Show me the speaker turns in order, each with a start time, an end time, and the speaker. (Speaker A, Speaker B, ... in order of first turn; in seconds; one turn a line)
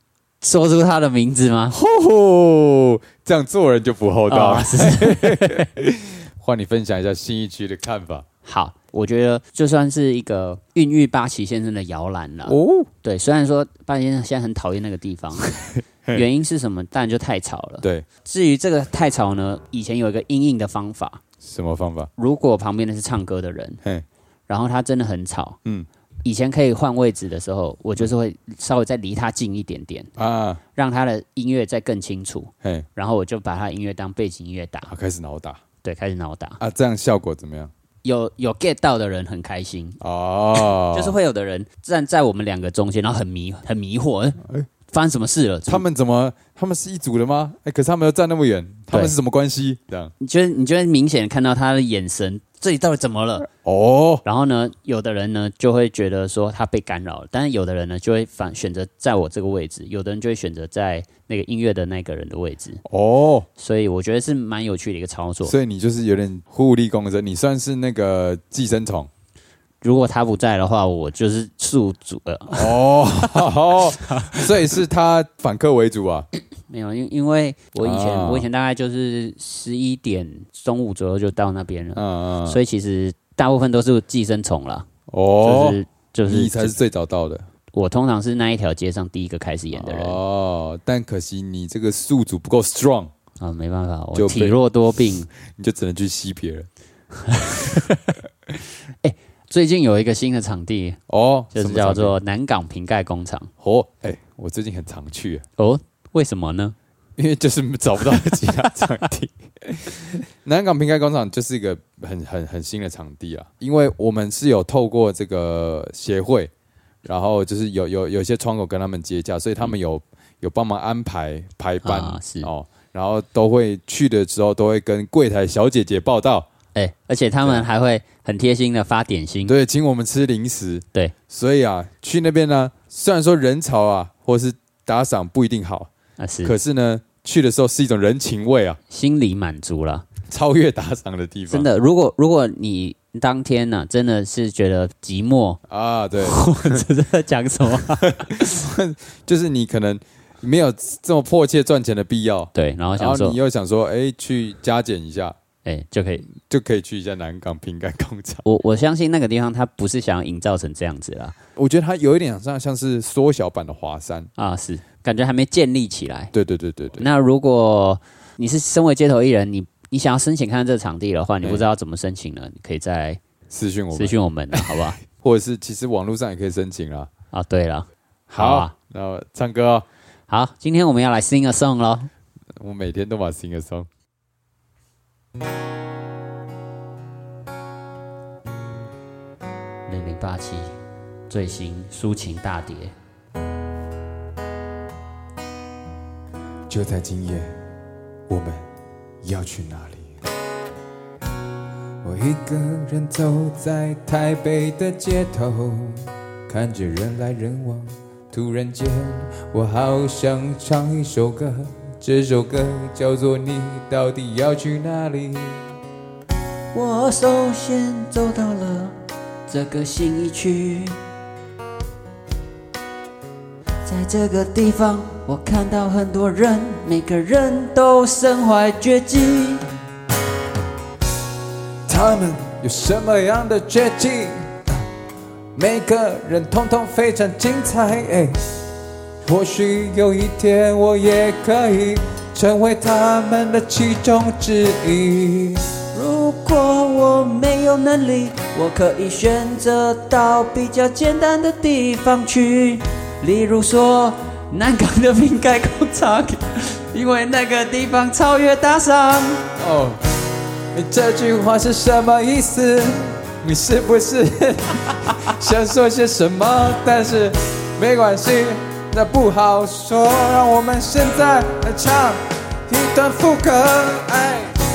Speaker A: 0.4-1.8
Speaker B: 1.7-8.3
Speaker A: 4.3-5.7
Speaker A: 8.4-21.2
Speaker B: 12.4-12.9
Speaker B: 17.8-18.1
Speaker B: 21.4-22.1
Speaker A: 22.2-23.8
Speaker A: 24.5-25.6
Speaker A: 26.2-30.1
Speaker B: 30.2-30.6
Speaker A: 30.8-34.9
Speaker B: 34.9-35.6
Speaker A: 35.8-36.6
Speaker B: 36.6-37.7
Speaker A: 38.0-40.0
Speaker B: 40.0-41.2
Speaker A: 40.6-45.9
Speaker B: 45.7-50.1
Speaker A: 50.2-53.5
Speaker B: 53.5-54.2
Speaker A: 54.2-62.8
Speaker B: 62.9-63.5
Speaker A: 63.6-65.5
Speaker B: 65.5-69.1
Speaker A: 69.8-73.5
Speaker B: 72.5-76.3
Speaker A: 74.1-74.5
Speaker A: 76.7-84.9
Speaker B: 77.8-78.5
Speaker B: 82.0-82.6
Speaker B: 85.1-87.5
Speaker A: 85.4-86.8
Speaker A: 87.7-90.2
Speaker B: 89.7-93.1
Speaker A: 93.4-95.3
Speaker B: 94.2-94.6
Speaker B: 95.5-96.7
Speaker A: 97.2-98.2
Speaker A: 99.0-101.0
Speaker B: 101.1-102.2
Speaker A: 101.5-103.5
Speaker B: 103.6-105.5
Speaker A: 105.6-106.8
Speaker B: 107.2-116.5
Speaker B: 117.0-126.5
Speaker A: 121.8-122.5
Speaker A: 126.8-129.5
Speaker B: 127.4-127.7
Speaker B: 129.5-135.9
Speaker A: 136.2-136.5
Speaker B: 136.4-138.8
Speaker A: 138.9-140.1
Speaker B: 140.3-141.7
Speaker A: 141.5-145.6
Speaker B: 145.7-146.8
Speaker A: 146.2-148.5
Speaker B: 148.2-155.4
Speaker A: 152.6-153.4
Speaker A: 155.7-156.3
Speaker B: 156.4-158.4
Speaker A: 158.4-161.4
Speaker B: 161.6-164.3
Speaker A: 164.4-166.3
Speaker B: 166.3-167.1
Speaker A: 167.0-173.2
Speaker B: 173.5-177.1
Speaker A: 173.9-175.0
Speaker A: 177.3-178.7
Speaker B: 178.3-179.8
Speaker A: 180.3-182.1
Speaker B: 182.6-183.9
Speaker A: 189.9-190.7
Speaker A: 191.3-192.9
Speaker B: 196.7-197.5
Speaker B: 198.3-198.6
Speaker B: 199.2-200.1
Speaker B: 202.0-215.7
Speaker A: 216.7-218.9
Speaker A: 219.5-221.0
Speaker A: 223.9-229.6
Speaker B: 231.9-234.6
Speaker B: 235.6-238.4
Speaker B: 239.2-245.7
Speaker A: 245.9-259.5
Speaker B: 259.6-260.0
Speaker B: 260.7-274.5